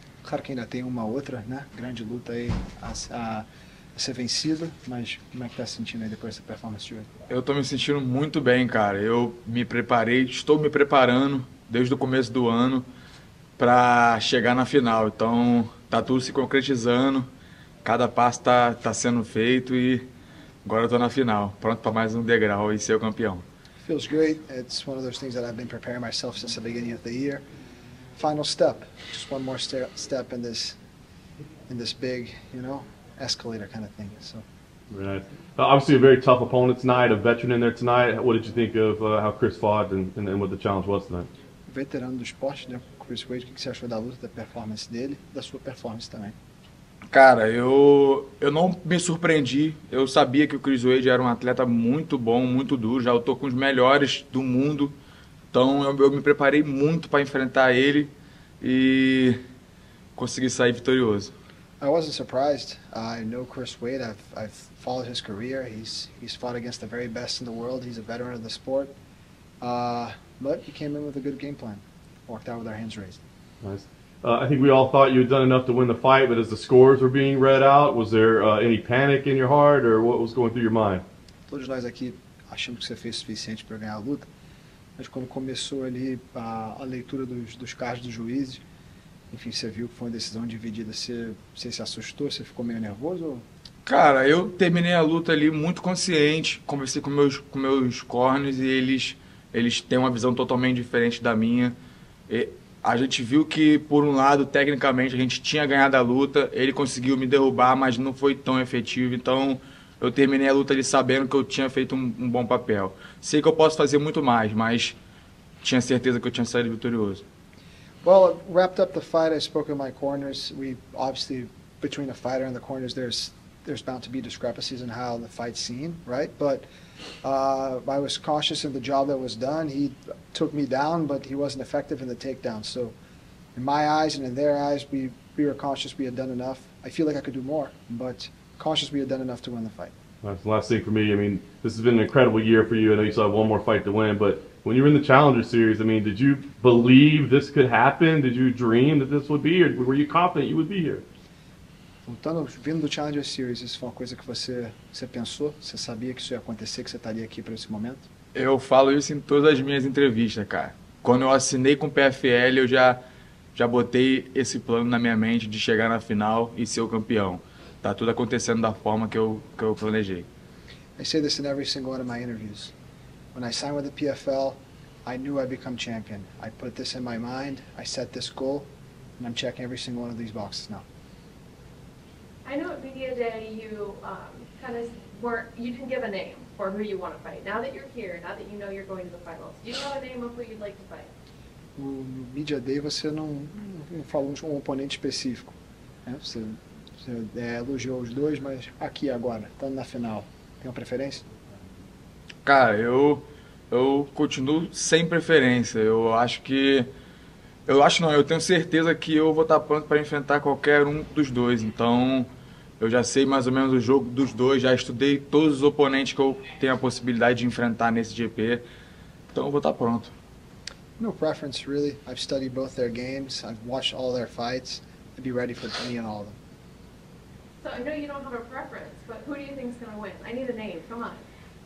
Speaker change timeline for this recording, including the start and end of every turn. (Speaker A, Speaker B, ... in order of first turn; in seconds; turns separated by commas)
Speaker A: 0.2-7.1, Speaker B: 7.3-12.9, Speaker B: 13.6-17.3, Speaker B: 17.8-20.1, Speaker B: 20.6-23.4, Speaker A: 23.8-27.4, Speaker A: 28.1-30.8, Speaker A: 31.7-34.4, Speaker C: 34.9-41.3, Speaker A: 41.7-46.4, Speaker B: 47.1-54.9, Speaker B: 55.5-59.4, Speaker B: 60.1-61.3, Speaker A: 61.8-68.9, Speaker A: 69.6-73.2, Speaker C: 73.6-81.0, Speaker A: 81.5-84.3, Speaker A: 85.0-88.6, Speaker A: 89.3-93.5, Speaker B: 93.8-101.8, Speaker B: 102.3-115.0, Speaker B: 115.6-117.2, Speaker A: 118.0-126.7, Speaker A: 127.2-132.9, Speaker A: 133.5-139.9, Speaker C: 140.2-151.0, Speaker A: 152.0-158.1, Speaker B: 158.3-163.0, Speaker B: 163.5-170.3, Speaker A: 171.0-172.7, Speaker A: 173.3-180.8, Speaker D: 182.4-191.1, Speaker A: 191.8-201.2, Speaker B: 202.4-206.9, Speaker B: 207.7-212.3, Speaker B: 212.8-218.6, Speaker B: 219.3-220.1, Speaker A: 221.0-226.4, Speaker D: 227.6-231.2